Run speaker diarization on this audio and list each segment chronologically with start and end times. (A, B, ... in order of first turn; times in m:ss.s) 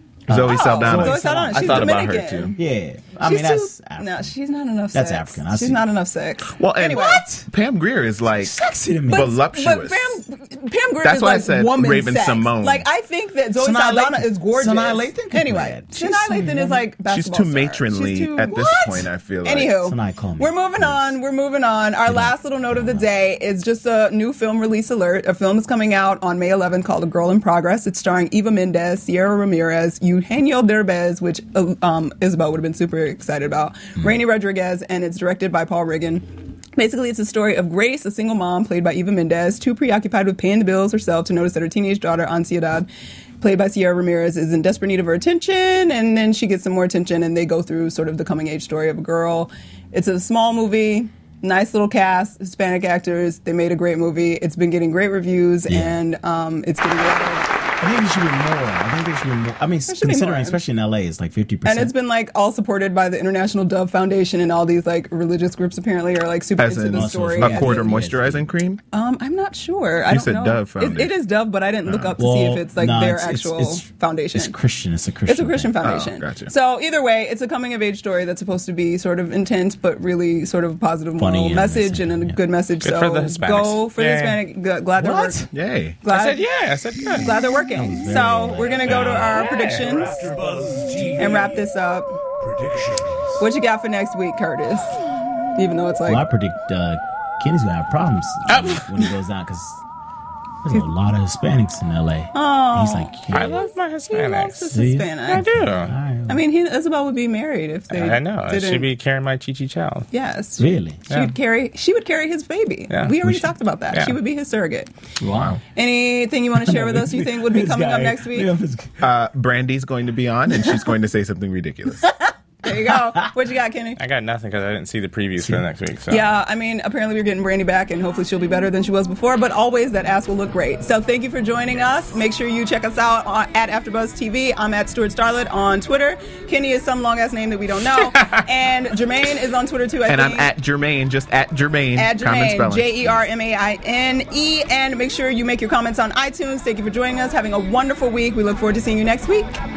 0:00.3-0:02.0 A
0:00.3-0:02.6 B
0:00.4-0:02.6 C
0:02.6-0:04.3 A
0:03.2-0:07.4 C
0:04.9-0:05.8 A
0:06.5-0:10.2 B
0:08.3-0:09.3 A
0:09.1-0:42.9 C
0:11.0-0:12.8 B
0:13.6-0:16.8 A
0:17.0-0:19.8 B
0:18.5-0:19.0 A
0:19.8-0:21.2 A
0:22.0-0:23.0 A
0:43.4-0:57.5 C
0:55.7-0:56.0 A
0:57.8-1:01.9 A
0:59.9-1:00.6 C
1:01.6-1:07.9 C
1:06.6-1:08.8 B
1:06.9-1:08.5 A
1:08.9-1:14.6 C
1:10.1-1:11.1 B
1:11.8-1:12.1 B
1:12.2-1:15.8 A
1:15.2-1:25.5 C
1:15.8-1:16.5 B
1:21.2-1:22.4 A
1:22.8-1:24.4 D
1:25.0-1:25.5 A
1:25.5-1:26.0 B
1:26.0-1:26.4 C
1:26.1-1:27.4 D
1:27.0-1:30.2 C
1:27.8-1:28.7 A
1:28.5-1:31.7 E
1:28.7-1:30.0 D
1:31.1-1:32.1 C
1:32.4-1:33.3 E
1:33.4-1:35.0 C
1:35.5-1:36.3 C
1:36.0-1:39.8 A
1:38.5-1:38.9 D
1:40.6-1:43.6 A
1:42.3-1:43.4 C
1:43.3-1:44.7 D
1:44.1-1:45.4 C
1:44.7-1:46.4 A
1:45.3-1:45.9 D
1:46.3-1:48.9 C
1:47.9-1:50.1 D
1:50.1-1:54.9 C
1:50.6-1:51.0 A
1:51.1-1:51.3 D
1:52.9-1:53.2 D
1:55.2-1:55.6 A
1:55.7-1:58.5 C
1:56.6-1:59.0 A
1:59.0-2:02.1 B
2:02.0-2:04.0 C
2:02.8-2:03.3 A
2:04.0-2:06.3 D
2:06.1-2:20.5 C
2:20.1-2:23.2 B
2:22.0-2:29.5 C